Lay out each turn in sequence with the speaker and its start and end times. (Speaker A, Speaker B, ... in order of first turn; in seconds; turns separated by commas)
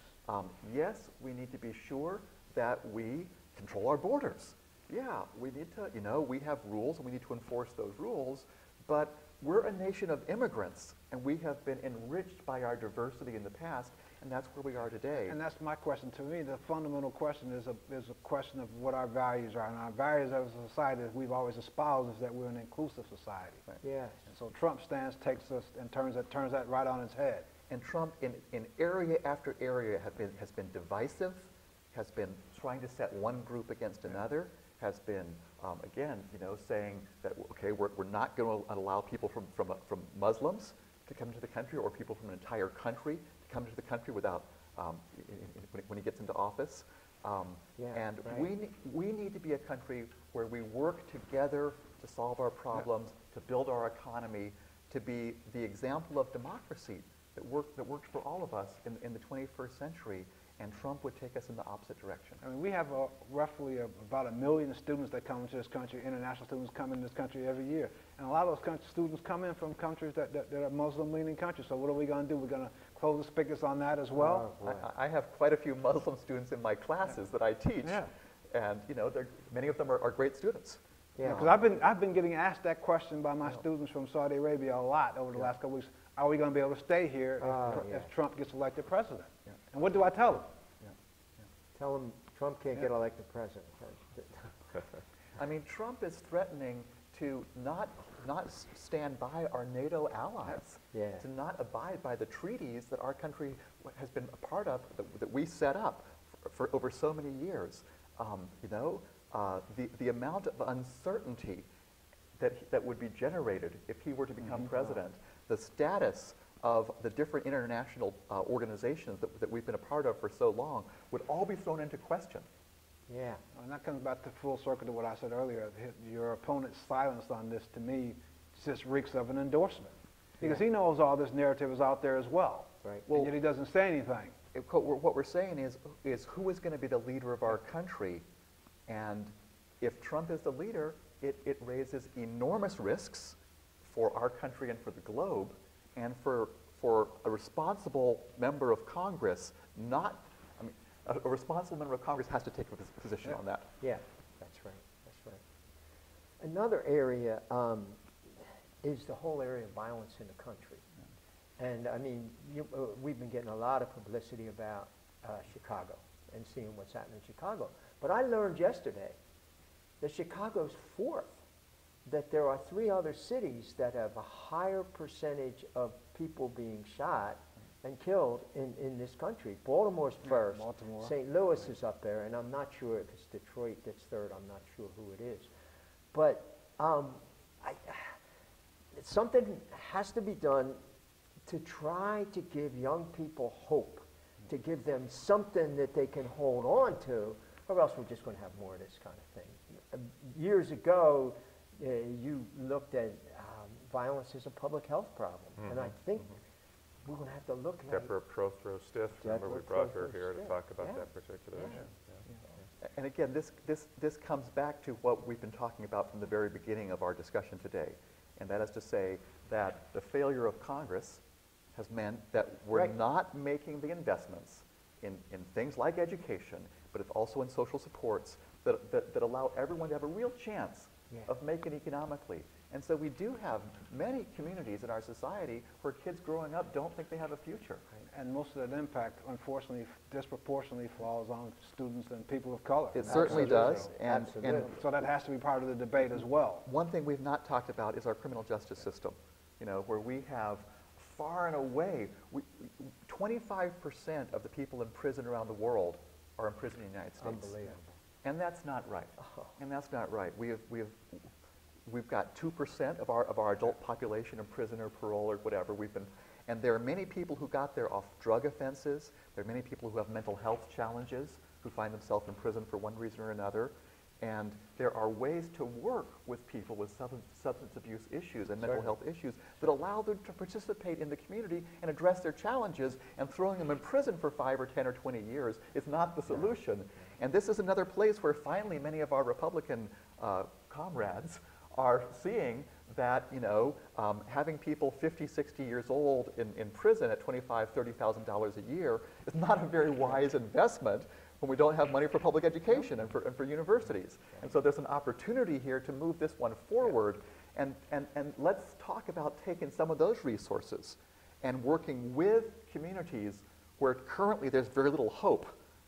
Speaker A: 0.2-15.4, Speaker B: 15.3-23.6, Speaker C: 23.8-24.2, Speaker B: 24.3-27.4, Speaker A: 27.7-62.4, Speaker C: 47.8-48.5, Speaker B: 62.4-74.5, Speaker C: 74.1-74.9, Speaker A: 74.6-80.8, Speaker B: 77.8-78.1, Speaker C: 81.2-81.5, Speaker B: 81.2-90.5, Speaker C: 87.4-88.1, Speaker C: 91.7-94.5, Speaker A: 95.4-111.7, Speaker C: 100.9-101.2, Speaker A: 112.4-122.5, Speaker C: 123.1-123.4, Speaker B: 123.5-134.3, Speaker A: 133.1-133.3, Speaker A: 134.5-138.2, Speaker A: 138.9-153.7, Speaker C: 153.8-155.4, Speaker C: 156.4-160.8, Speaker C: 161.6-169.2, Speaker C: 170.0-171.4, Speaker C: 172.1-185.5, Speaker B: 180.3-181.1, Speaker C: 186.1-188.2, Speaker C: 188.9-190.8, Speaker C: 191.5-206.3, Speaker D: 205.6-206.3, Speaker C: 207.1-208.1, Speaker D: 207.9-212.2, Speaker C: 209.2-211.0, Speaker C: 211.5-211.8, Speaker A: 212.8-221.2, Speaker A: 221.7-237.9, Speaker B: 238.1-246.7, Speaker A: 242.9-244.7, Speaker C: 243.1-244.7, Speaker A: 246.6-257.6, Speaker C: 257.2-257.9, Speaker A: 258.2-261.3, Speaker A: 261.9-315.5